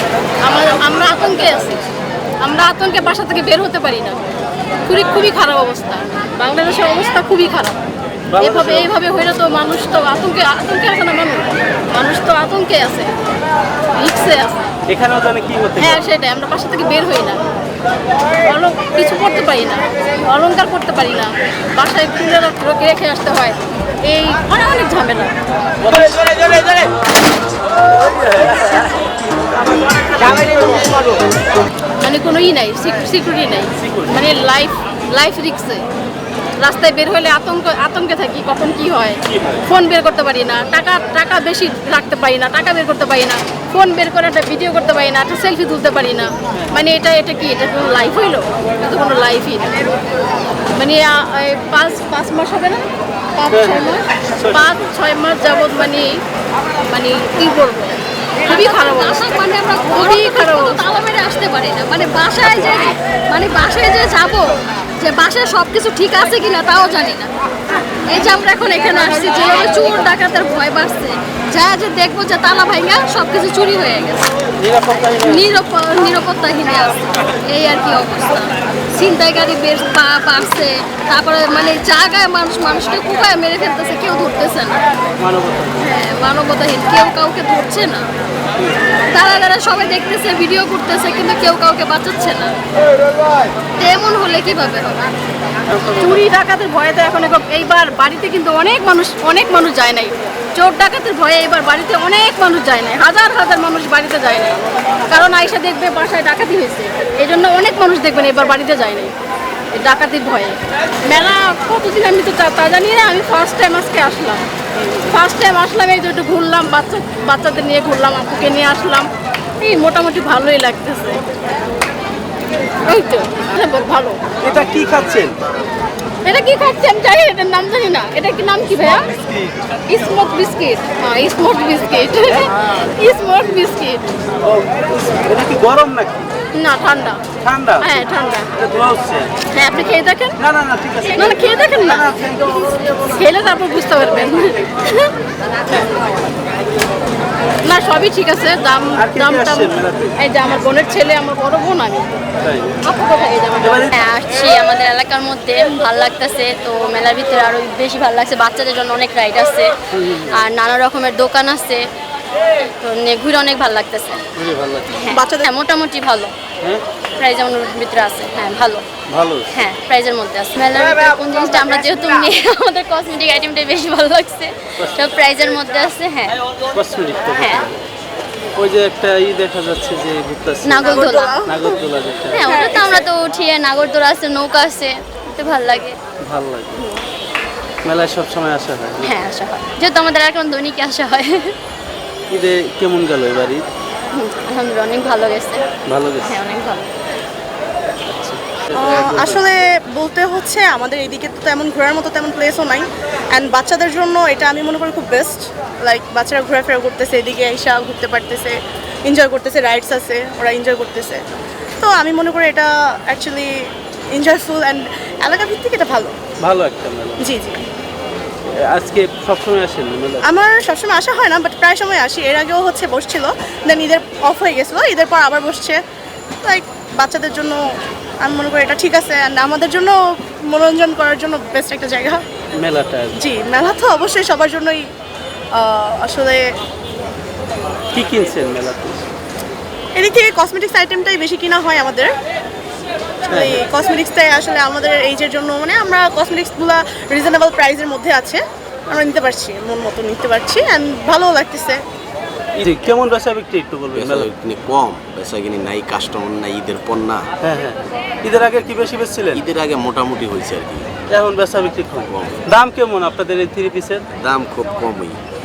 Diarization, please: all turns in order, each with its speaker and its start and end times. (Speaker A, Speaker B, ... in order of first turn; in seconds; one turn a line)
Speaker A: 0.5-1.8
Speaker A: 2.4-4.2
Speaker A: 4.9-7.8
Speaker B: 8.3-8.9
Speaker A: 8.4-13.1
Speaker A: 14.0-14.7
Speaker B: 14.9-16.0
Speaker A: 15.8-17.4
Speaker A: 18.4-25.3
Speaker B: 25.8-26.7
Speaker B: 28.2-28.9
Speaker B: 30.4-30.8
Speaker A: 32.0-35.8
Speaker B: 33.8-34.1
Speaker A: 36.6-49.7
Speaker A: 50.7-52.9
Speaker A: 53.4-56.2
Speaker B: 53.5-54.9
Speaker A: 56.9-59.3
Speaker C: 58.5-67.3
Speaker A: 59.9-60.9
Speaker C: 68.1-74.3
Speaker B: 74.6-75.5
Speaker C: 75.2-84.8
Speaker B: 85.2-85.9
Speaker C: 85.8-88.1
Speaker C: 89.1-92.6
Speaker C: 93.8-95.0
Speaker B: 95.7-96.2
Speaker A: 96.0-109.1
Speaker A: 109.7-114.4
Speaker A: 115.1-119.1
Speaker A: 119.6-121.2
Speaker A: 122.9-124.2
Speaker B: 124.4-125.4
Speaker A: 126.2-129.1
Speaker B: 129.1-129.6
Speaker A: 129.9-134.0
Speaker B: 134.4-136.3
Speaker A: 136.5-137.2
Speaker B: 137.4-138.0
Speaker A: 137.8-138.5
Speaker B: 138.6-139.3
Speaker A: 139.5-140.4
Speaker B: 140.4-142.9
Speaker A: 141.1-142.1
Speaker A: 143.1-145.1
Speaker A: 147.7-152.1
Speaker B: 149.0-150.2
Speaker B: 152.4-152.8
Speaker A: 152.8-153.9
Speaker B: 153.6-153.9
Speaker D: 153.9-159.7
Speaker B: 160.0-160.5
Speaker D: 160.3-161.8
Speaker D: 162.6-164.2
Speaker B: 164.4-165.1
Speaker D: 164.9-166.3
Speaker E: 165.1-165.5
Speaker D: 167.2-168.8
Speaker B: 169.1-169.5
Speaker D: 169.5-176.4
Speaker B: 176.7-177.8
Speaker D: 177.3-177.7
Speaker B: 178.6-182.5
Speaker D: 180.6-181.5
Speaker E: 180.8-181.5
Speaker D: 182.3-186.0
Speaker E: 182.5-183.1
Speaker B: 186.2-186.9
Speaker B: 187.8-189.1
Speaker D: 189.0-191.5
Speaker B: 192.3-193.7
Speaker D: 194.2-195.7
Speaker B: 195.9-196.3
Speaker D: 196.2-196.9
Speaker B: 198.1-199.4
Speaker E: 198.7-208.6
Speaker E: 209.1-211.2
Speaker E: 211.8-216.2
Speaker B: 216.4-217.2
Speaker E: 217.2-217.6
Speaker B: 218.7-220.2
Speaker E: 220.2-225.8
Speaker E: 226.4-227.6
Speaker E: 228.2-232.2
Speaker B: 232.6-233.2
Speaker E: 233.2-234.9
Speaker E: 235.6-236.5
Speaker B: 237.9-239.1
Speaker E: 240.0-242.1
Speaker E: 243.3-251.8
Speaker B: 243.3-243.6
Speaker B: 252.6-254.3
Speaker F: 253.9-257.3
Speaker B: 257.4-259.4
Speaker F: 259.3-260.9
Speaker B: 261.1-264.0
Speaker F: 262.1-262.4
Speaker F: 264.2-265.2